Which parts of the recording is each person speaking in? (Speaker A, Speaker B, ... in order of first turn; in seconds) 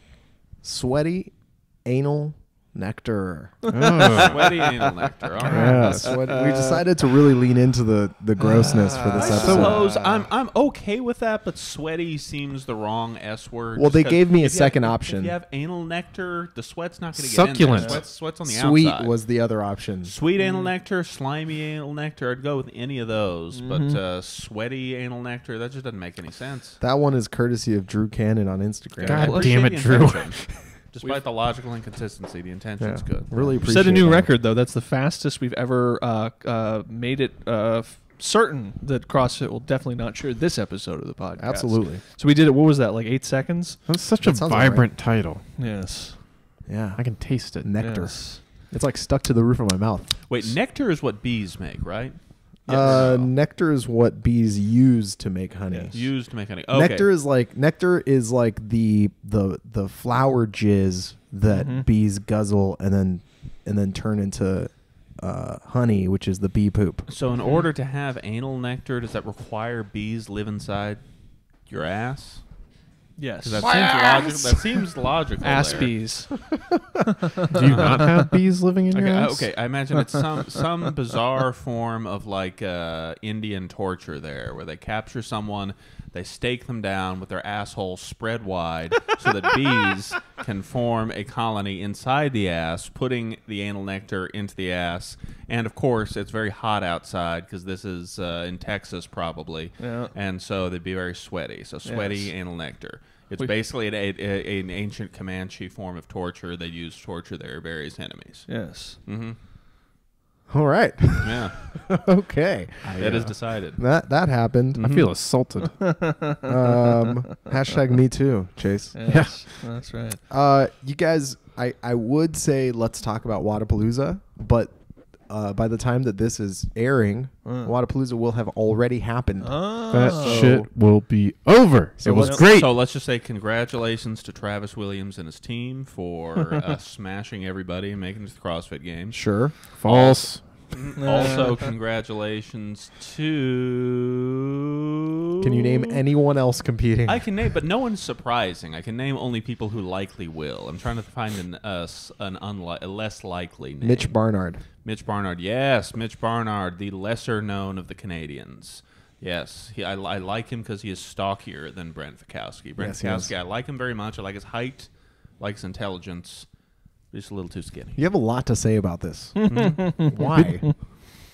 Speaker A: 0.6-3.7, 5.5-9.8, 13.8-15.3, 18.4-20.1, 26.8-29.7, 32.8-34.3, 41.4-42.0, 44.2-44.9, 46.7-50.5, 52.7-67.1, 73.6-74.2, 110.5-114.8, 116.4-119.4, 120.3-124.7, 125.3-130.7, 132.0-132.5, 139.1-139.6, 145.4-147.3, 153.8-154.6, 162.8-163.3, 168.0-170.7
Speaker B: 3.7-6.8, 8.4-10.3, 17.7-18.0, 20.4-20.7, 23.5-24.0, 33.6-43.9, 45.6-46.2, 47.8-48.4, 52.7-53.1, 55.7-55.9, 61.5-61.9, 73.2-74.5, 75.4-76.5, 77.4-78.2, 80.1-80.7, 99.8-100.1, 101.8-102.3, 108.5-109.0, 115.8-116.5, 118.9-120.2, 127.5-127.7, 129.4-130.5, 141.0-141.7, 169.4-170.7
Speaker C: 3.7-4.5, 5.5-6.2, 9.2-9.7, 17.2-18.0, 29.0-30.7, 43.9-45.4, 47.0-47.7, 77.5-79.5, 114.8-116.0, 119.1-119.3, 129.9-132.7, 139.8-141.1, 170.3-170.8
Speaker D: 4.2-6.0, 9.2-19.2, 20.0-26.8, 29.0-33.7, 50.3-53.3, 55.9-57.1, 67.1-71.0, 71.7-72.4, 73.4-76.0, 78.9-109.4, 111.2-111.7, 113.0-113.8, 114.8-115.1, 132.4-144.4, 145.4-146.0, 147.1-154.2, 154.8-166.5, 167.1-168.0, 169.5-170.1